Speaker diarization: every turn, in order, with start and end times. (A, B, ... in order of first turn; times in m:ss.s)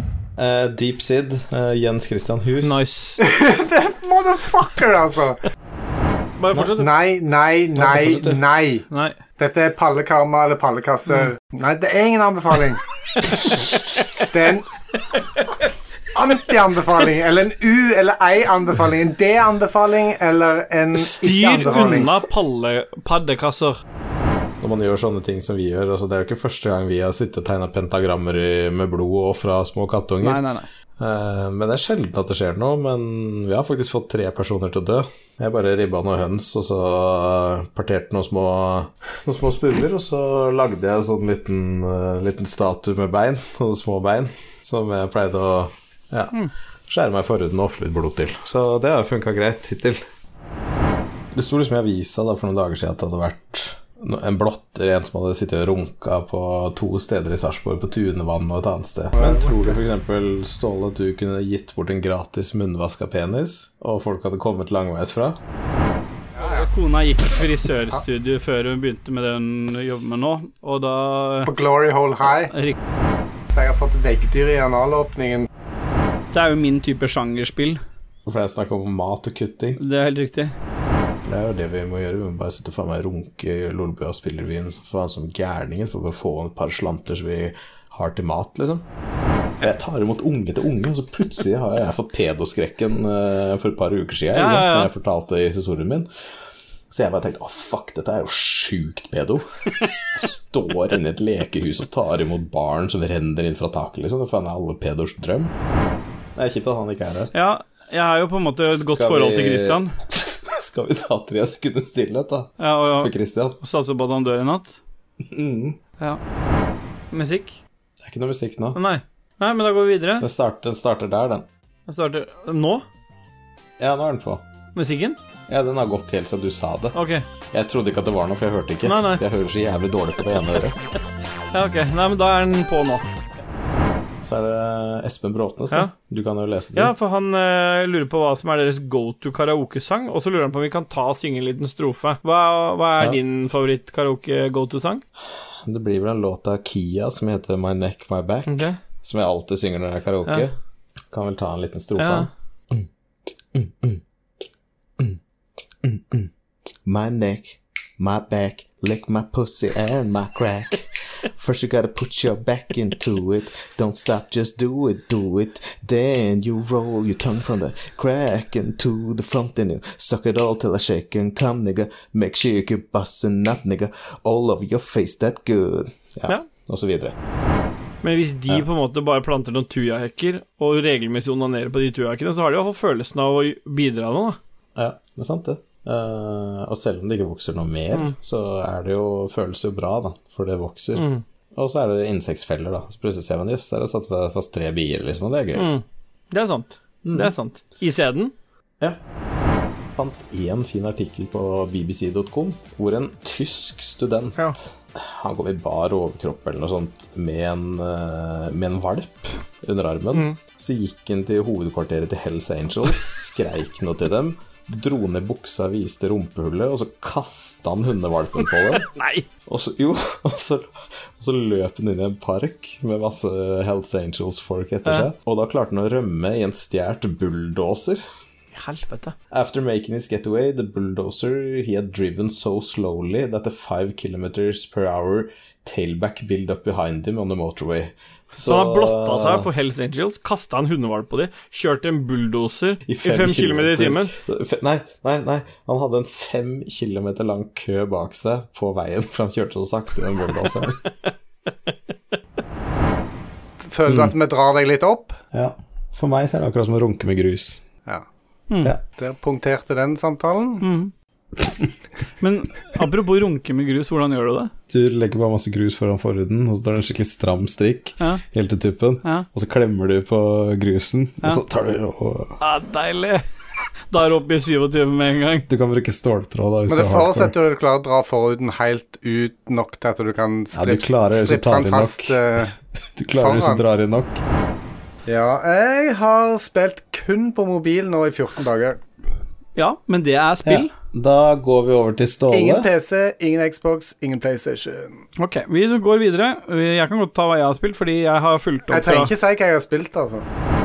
0:00.4-0:02.8 A
0:02.6-0:03.2 B
0:03.2-0:05.4 C
0:06.4-0:06.9 B
0:06.8-0:08.8 C
0:07.8-0:08.4 A
0:08.9-0:09.2 B
0:09.4-0:12.8 C
0:13.3-0:13.7 B
0:14.3-0:14.7 C
0:16.1-0:22.2 C
0:20.9-0:23.8 B
0:24.6-0:30.4 A
0:30.2-0:30.7 B
0:31.0-0:46.4 A
0:46.9-0:50.0 A
0:51.3-1:05.4 A
0:59.1-0:59.8 C
1:06.4-1:06.6 C
1:06.4-1:11.5 B
1:11.4-1:12.5 C
1:12.5-1:12.8 B
1:13.5-1:15.5 C
1:16.3-1:17.8 B
1:18.2-1:19.8 A
1:19.8-1:20.5 B
1:21.2-1:28.8 A
1:29.6-1:36.1 A
1:34.3-1:34.9 B
1:36.9-1:39.5 A
1:40.1-1:45.5 A
1:46.4-1:47.3 A
1:47.3-1:49.9 B
1:48.6-1:53.6 A
1:52.6-1:54.8 B
1:55.3-1:55.8 A
1:57.1-1:57.6 B
1:58.0-1:58.8 A
1:58.7-2:00.2 B
2:00.2-2:01.4 A
2:01.9-2:02.8 B
2:03.8-2:04.4 A
2:04.7-2:05.2 B
2:05.5-2:06.9 A
2:06.9-2:07.2 B
2:07.5-2:10.8 A
2:08.8-2:09.2 B
2:11.5-2:13.1 B
2:14.2-2:16.9 A
2:16.8-2:25.0 B
2:25.6-2:30.5 A
2:28.5-2:28.8 B
2:31.1-2:32.9 A
2:32.0-2:32.3 B
2:33.5-2:34.0 A
2:35.8-2:36.3 A
2:36.8-2:57.1 A
2:58.0-3:04.4 B
3:04.8-3:15.7 A
3:10.9-3:11.2 B
3:15.5-3:18.3 B
3:17.0-3:17.3 A
3:20.0-3:38.9 A
3:38.6-3:39.2 B
3:39.4-3:48.0 A
3:48.5-3:49.1 B
3:49.3-3:59.5 A
3:58.4-4:04.1 B
4:02.9-4:10.8 A
4:13.6-4:15.2 C
4:13.8-4:14.1 A
4:15.3-4:17.6 A
4:18.5-4:18.7 B
4:18.9-4:20.6 C
4:20.6-4:20.9 B
4:22.2-4:24.5 B
4:24.7-4:32.4 A
4:32.4-4:33.2 B
4:33.9-4:35.5 B
4:35.5-4:37.3 A
4:36.7-4:42.5 C
4:40.5-4:42.2 A
4:42.9-4:44.2 A
4:43.1-4:43.6 C
4:45.0-4:48.8 C
4:49.6-4:50.7 B
4:50.4-4:52.7 A
4:52.3-4:55.0 C
4:55.2-4:59.1 B
4:58.7-5:00.2 C